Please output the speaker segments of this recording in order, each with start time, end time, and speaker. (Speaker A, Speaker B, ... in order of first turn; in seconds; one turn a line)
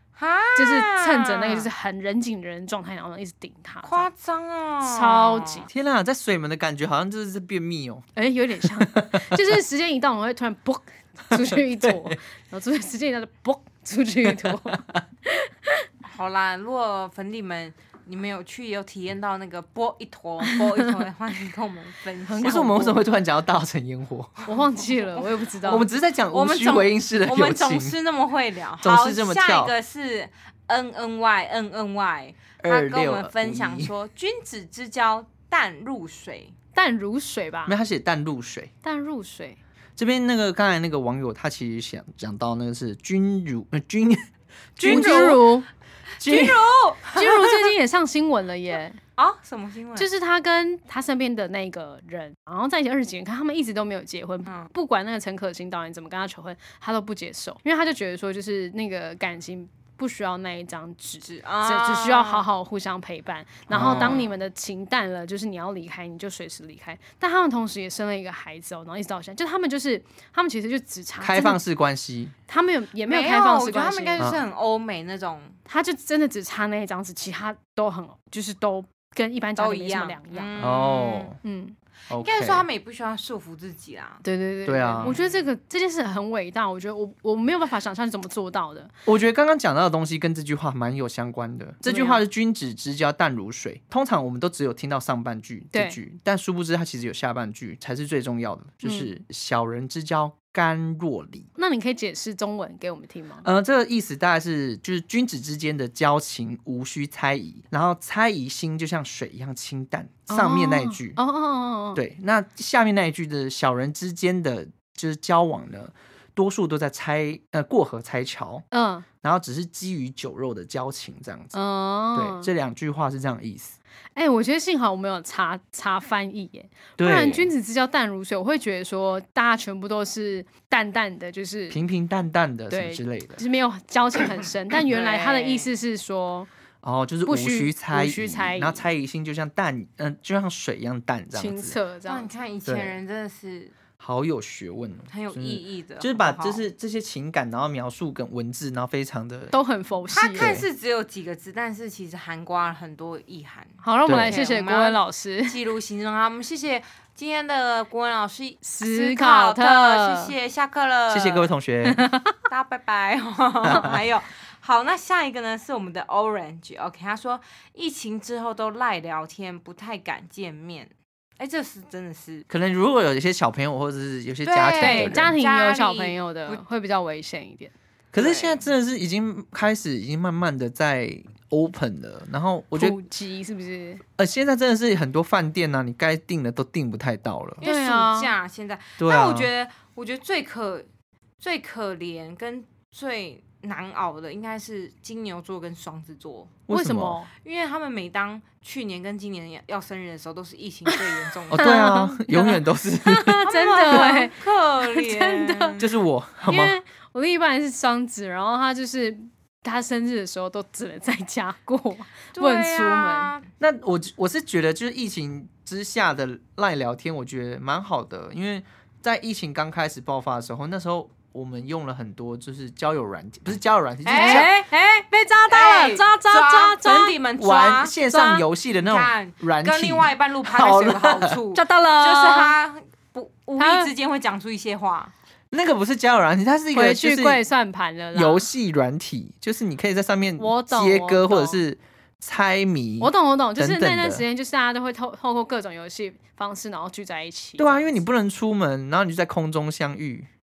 Speaker A: 0.2-1.7
Speaker B: 0.6-4.1
Speaker A: 3.9-5.7
Speaker B: 4.8-5.7
Speaker C: 5.7-9.6
Speaker B: 8.2-15.9
Speaker C: 11.3-12.2
Speaker C: 14.3-15.0
Speaker A: 16.1-22.9
Speaker B: 22.3-23.0
Speaker C: 22.4-24.4
Speaker B: 24.5-25.9
Speaker C: 25.6-28.0
Speaker A: 26.3-36.5
Speaker C: 28.8-29.7
Speaker C: 32.6-33.9
Speaker B: 36.8-37.8
Speaker C: 37.7-38.7
Speaker B: 38.8-39.6
Speaker C: 40.0-45.4
Speaker A: 44.8-45.5
Speaker B: 44.8-45.7
Speaker A: 46.2-47.6
Speaker C: 46.2-46.6
Speaker B: 47.1-49.0
Speaker A: 49.2-50.1
Speaker B: 50.0-71.6
Speaker A: 54.5-54.7
Speaker A: 61.2-62.5
Speaker C: 63.7-64.2
Speaker A: 63.8-64.3
Speaker C: 71.2-72.3
Speaker B: 72.5-74.2
Speaker A: 73.1-75.6
Speaker B: 75.7-80.5
Speaker A: 79.6-81.3
Speaker C: 80.6-81.4
Speaker B: 81.4-81.8
Speaker C: 82.1-82.7
Speaker A: 82.1-84.2
Speaker B: 84.2-88.9
Speaker C: 84.7-85.1
Speaker A: 85.0-85.5
Speaker C: 89.1-101.5
Speaker B: 91.8-92.2
Speaker B: 95.7-96.0
Speaker B: 98.8-99.1
Speaker B: 101.6-103.5
Speaker C: 103.4-111.2
Speaker B: 110.3-112.0
Speaker C: 112.0-118.7
Speaker B: 118.7-119.1
Speaker C: 119.2-121.5
Speaker B: 121.5-122.5
Speaker C: 122.2-123.8
Speaker B: 124.2-131.8
Speaker C: 127.0-127.5
Speaker C: 131.7-133.4
Speaker B: 132.7-136.5
Speaker A: 134.9-135.7
Speaker C: 136.8-141.8
Speaker B: 137.3-138.8
Speaker B: 141.3-142.3
Speaker A: 142.1-143.7
Speaker C: 142.7-143.0
Speaker C: 144.0-149.5
Speaker A: 145.1-146.6
Speaker B: 149.5-150.6
Speaker A: 150.1-161.5
Speaker C: 150.3-150.6
Speaker B: 153.8-155.6
Speaker C: 154.1-154.4
Speaker B: 158.6-160.3
Speaker C: 161.1-162.0
Speaker B: 161.9-162.3
Speaker A: 162.5-172.5
Speaker C: 163.7-164.0
Speaker C: 172.5-175.4
Speaker A: 174.4-176.6
Speaker B: 174.8-177.7
Speaker C: 178.1-183.0
Speaker A: 178.2-178.7
Speaker B: 182.7-184.0
Speaker C: 184.2-187.6
Speaker A: 187.6-190.9
Speaker B: 187.6-188.3
Speaker C: 189.0-189.5
Speaker A: 191.4-196.6
Speaker C: 196.7-197.2
Speaker B: 196.7-197.3
Speaker A: 197.4-202.0
Speaker C: 201.5-203.4
Speaker B: 201.6-205.8
Speaker A: 203.5-205.9
Speaker C: 205.8-206.8
Speaker B: 206.5-213.3
Speaker A: 212.3-213.5
Speaker C: 213.6-224.5
Speaker A: 224.1-224.7
Speaker B: 224.1-227.2
Speaker A: 225.5-235.1
Speaker C: 227.4-231.4
Speaker B: 228.1-228.4
Speaker B: 231.6-232.6
Speaker B: 233.6-233.9
Speaker C: 235.5-237.4
Speaker B: 236.7-238.5
Speaker C: 238.1-244.2
Speaker B: 240.4-241.6
Speaker B: 243.0-248.0
Speaker C: 247.6-250.3